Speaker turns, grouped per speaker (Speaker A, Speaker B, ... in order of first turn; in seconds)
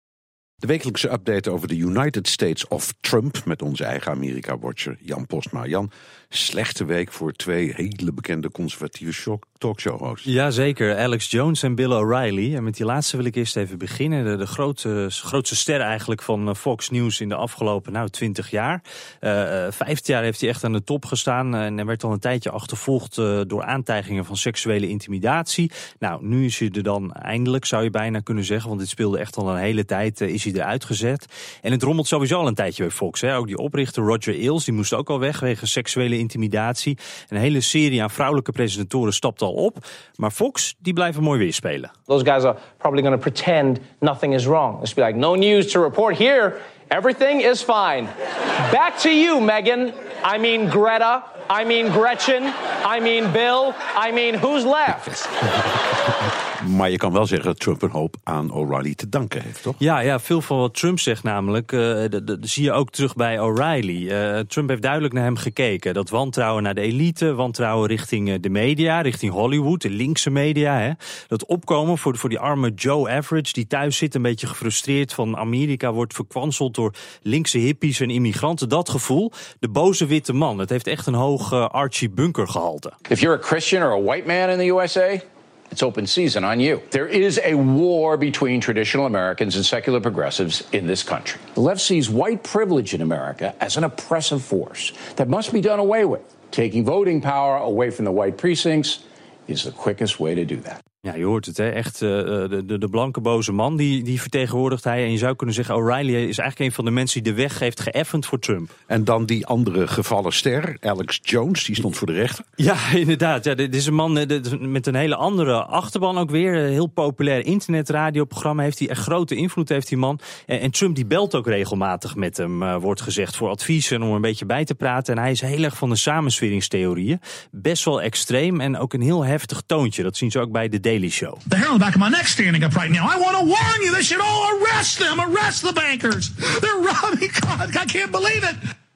Speaker A: 0.6-10.3, 56.6-59.8, 108.9-112.4
Speaker B: 10.2-41.9, 59.8-82.9, 101.0-108.7, 112.6-131.4
Speaker C: 42.1-48.1, 48.6-55.3
Speaker D: 83.1-100.8
Speaker E: 131.5-138.6